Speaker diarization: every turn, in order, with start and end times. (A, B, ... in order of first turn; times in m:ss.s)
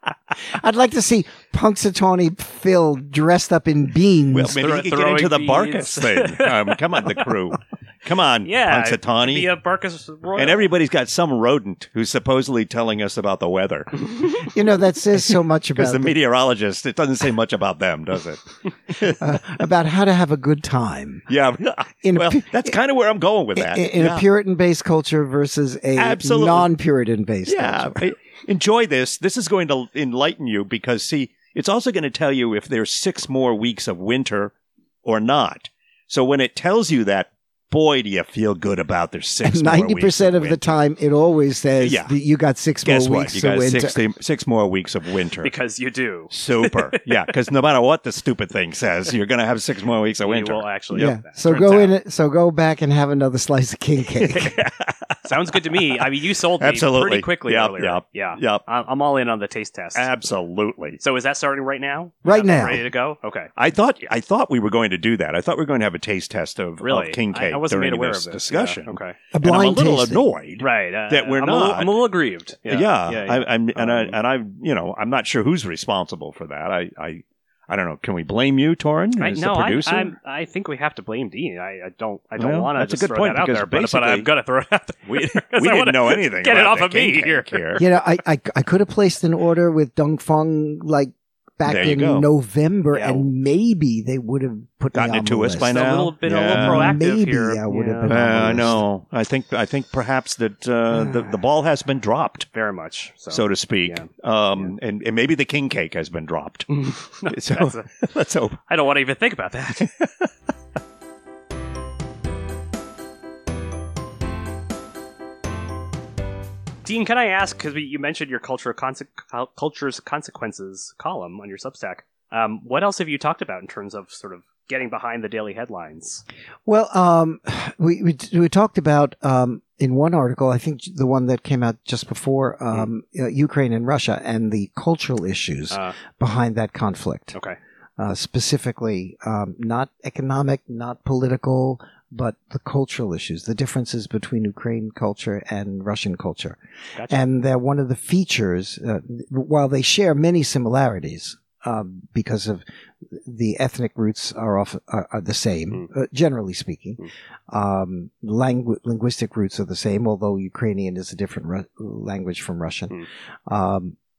0:00.4-0:04.6 A
0:04.3-0:09.5 B
0:04.5-0:07.3 C
0:08.4-0:10.7 C
0:10.4-0:14.5 B
0:14.4-0:16.2 A
0:15.8-0:19.2 B
0:19.2-0:21.3 A
0:21.3-0:24.2 B
0:22.0-0:22.8 A
0:23.5-0:28.0 A
0:26.0-0:26.7 B
0:27.4-0:34.5 B
0:35.0-0:40.8 B
0:39.4-0:44.0 A
0:41.8-0:42.1 B
0:42.8-0:45.5 B
0:45.4-0:47.2 C
0:46.3-0:51.9 B
0:50.2-0:51.8 C
0:50.9-0:54.7 A
0:54.2-0:55.3 B
0:55.2-1:00.1 C
0:56.6-0:58.6 B
0:59.9-1:01.0 B
1:01.0-1:03.5 C
1:02.2-1:02.9 A
1:03.6-1:11.9 B
1:06.8-1:09.2 C
1:09.3-1:10.2 A
1:10.6-1:14.2 C
1:12.7-1:20.1 B
1:19.2-1:27.9 C
1:22.4-1:24.3 B
1:25.1-1:27.8 B
1:27.8-1:38.8 A
1:31.6-1:32.3 B
1:32.9-1:33.3 C
1:34.9-1:37.0 B
1:35.6-1:38.8 C
1:38.1-1:42.5 B
1:42.5-1:44.7 C
1:43.3-1:46.8 B
1:46.7-1:47.9 C
1:47.3-1:48.6 B
1:48.7-1:49.9 C
1:49.8-1:50.3 B
1:56.8-2:06.2 C
2:06.6-2:17.4 A
2:15.7-2:16.0 C
2:18.0-2:44.0 A
2:26.9-2:27.2 C